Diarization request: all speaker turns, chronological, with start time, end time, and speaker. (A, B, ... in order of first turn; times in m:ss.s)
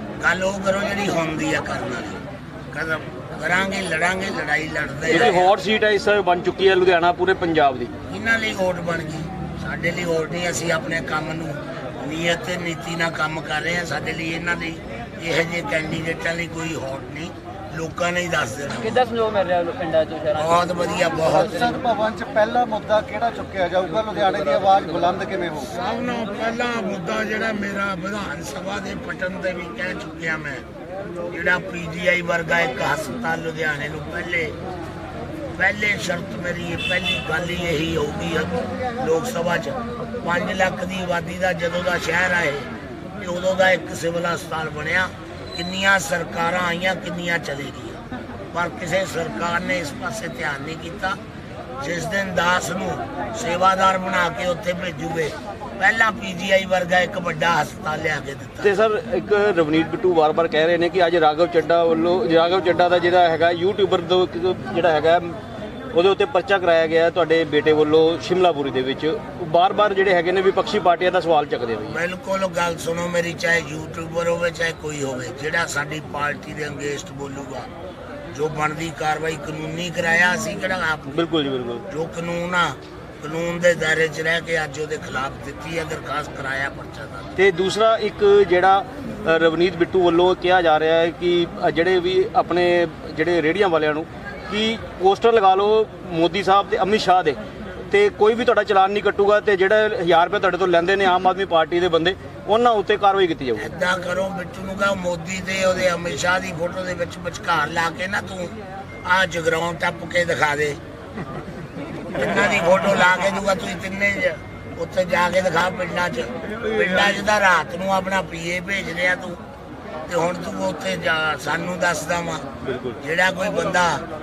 0:00.2-0:05.5 A
0:05.1-0:07.9 B
0:08.1-0:19.1 A
0:20.3-0:21.8 A
0:21.3-0:25.7 C
0:25.6-0:30.6 A
0:31.3-0:34.6 A
0:35.6-0:42.7 A
0:43.2-0:48.0 A
0:48.5-0:51.2 A
0:51.8-0:58.8 A
0:58.6-1:05.4 B
1:05.9-1:12.0 B
1:11.9-1:17.7 A
1:18.3-1:21.2 A
1:21.1-1:21.8 B
1:21.9-1:27.3 A
1:27.4-1:37.4 B
1:37.9-1:43.6 B
1:43.6-1:48.6 A
1:49.1-1:50.8 A
1:52.2-1:59.4 A
2:00.1-2:02.5 A
2:03.0-2:04.0 A